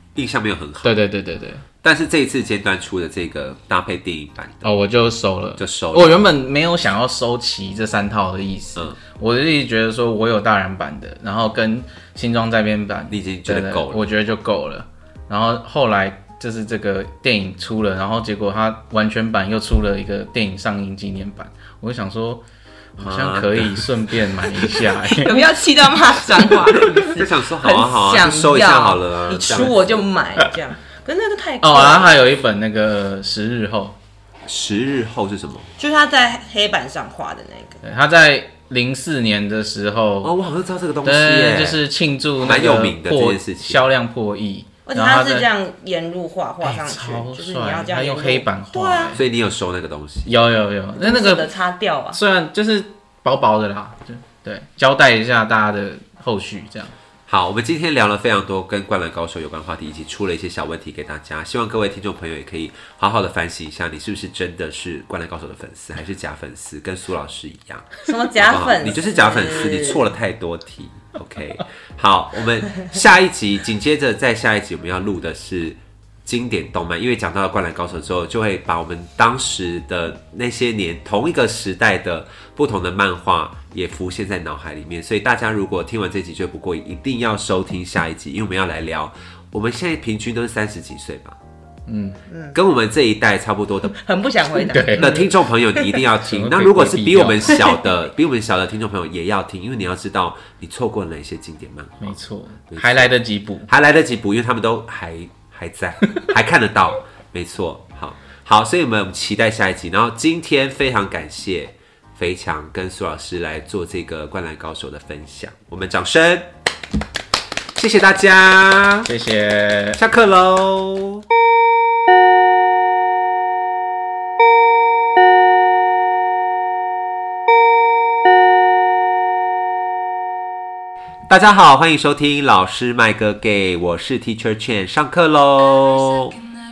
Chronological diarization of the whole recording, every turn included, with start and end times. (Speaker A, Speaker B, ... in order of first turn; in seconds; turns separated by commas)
Speaker A: 0.1-1.0, Speaker B: 0.8-1.6, Speaker A: 1.8-4.7, Speaker B: 4.6-22.4, Speaker A: 5.6-6.2, Speaker A: 13.1-14.0, Speaker B: 22.9-25.3, Speaker A: 23.0-24.1, Speaker C: 24.7-32.2, Speaker A: 27.0-30.0, Speaker B: 31.6-34.0, Speaker A: 34.4-35.7, Speaker C: 35.8-37.8, Speaker B: 37.8-40.3, Speaker A: 40.2-41.8, Speaker B: 41.0-45.5, Speaker A: 42.4-43.8, Speaker C: 44.9-49.2, Speaker B: 46.6-49.2, Speaker A: 49.1-50.3, Speaker B: 50.2-51.5, Speaker C: 51.0-52.2, Speaker B: 52.1-56.9, Speaker A: 57.3-91.4, Speaker C: 68.0-70.1, Speaker B: 91.9-92.2, Speaker C: 92.3-92.6, Speaker A: 92.5-93.9, Speaker C: 93.9-95.9, Speaker B: 94.7-95.3, Speaker A: 94.9-102.2, Speaker B: 96.2-97.6, Speaker C: 97.5-97.9, Speaker B: 102.0-103.7, Speaker A: 102.7-103.1, Speaker A: 103.7-116.5, Speaker A: 117.7-119.1, Speaker B: 119.0-120.0, Speaker A: 119.9-121.2, Speaker A: 131.3-136.4